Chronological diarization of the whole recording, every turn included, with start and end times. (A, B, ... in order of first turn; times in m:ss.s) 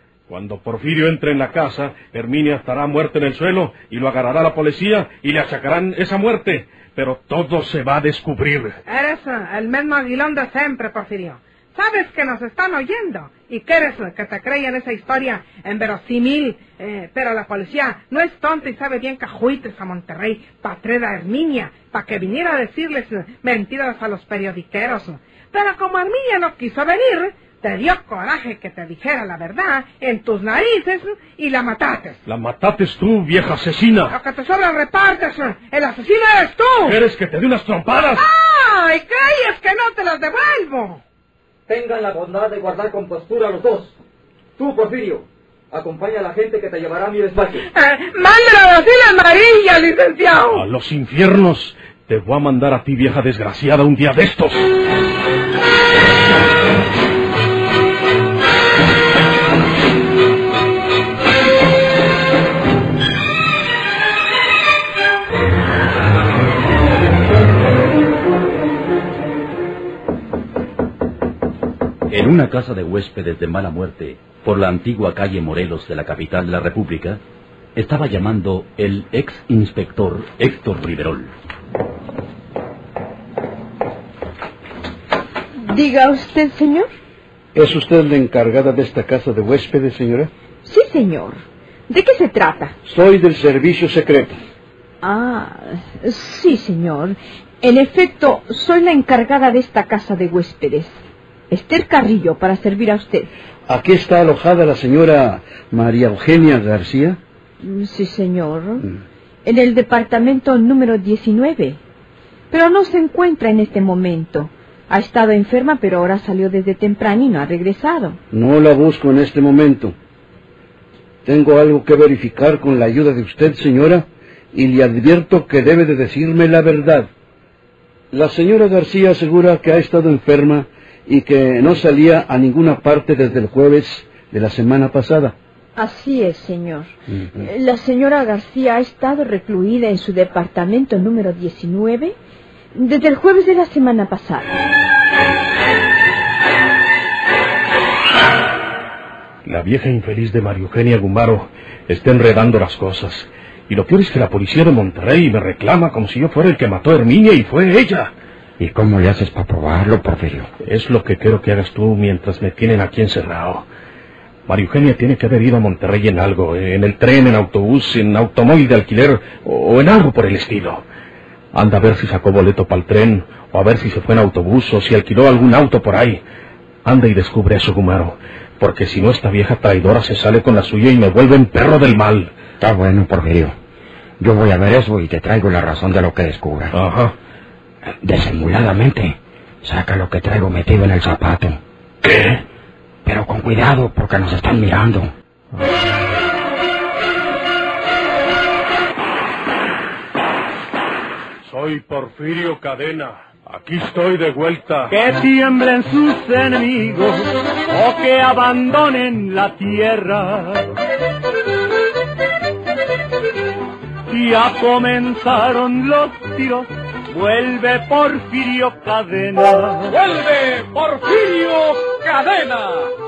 0:00.3-0:08.8 A
0:08.9-0:32.2 B
0:32.2-0:34.2 A
0:34.1-0:37.0 B
0:36.8-0:38.2 A
0:38.2-0:41.0 B
0:41.7-0:44.0 C
0:44.6-0:47.7 C
0:47.7-0:50.6 B
0:50.5-0:54.7 A
1:12.1-1:17.2 D
1:17.8-1:21.3 D
1:25.6-1:26.9 E
1:27.5-1:30.3 F
1:30.6-1:32.7 E
1:32.8-1:34.4 F
1:35.0-1:40.9 E
1:41.5-1:43.3 E
1:43.7-1:47.2 F
1:47.6-1:48.9 E
1:49.4-1:51.8 E
1:52.5-1:58.2 E
1:58.3-1:59.9 F
2:01.2-2:07.1 F
2:08.1-2:15.4 F
2:15.8-2:22.2 E
2:22.8-2:24.5 E
2:29.4-2:38.1 A
2:38.6-2:40.5 G
2:40.6-2:43.6 A
2:44.5-2:50.8 A
2:51.5-2:56.2 A
2:56.8-3:02.3 A
3:02.6-3:03.6 G
3:04.2-3:06.7 G
3:06.7-3:07.1 A
3:08.0-3:11.6 G
3:12.0-3:12.4 A
3:13.0-3:15.1 G
3:21.4-3:24.9 A
3:24.9-3:30.7 H
3:34.1-3:40.0 H
3:39.9-3:42.9 I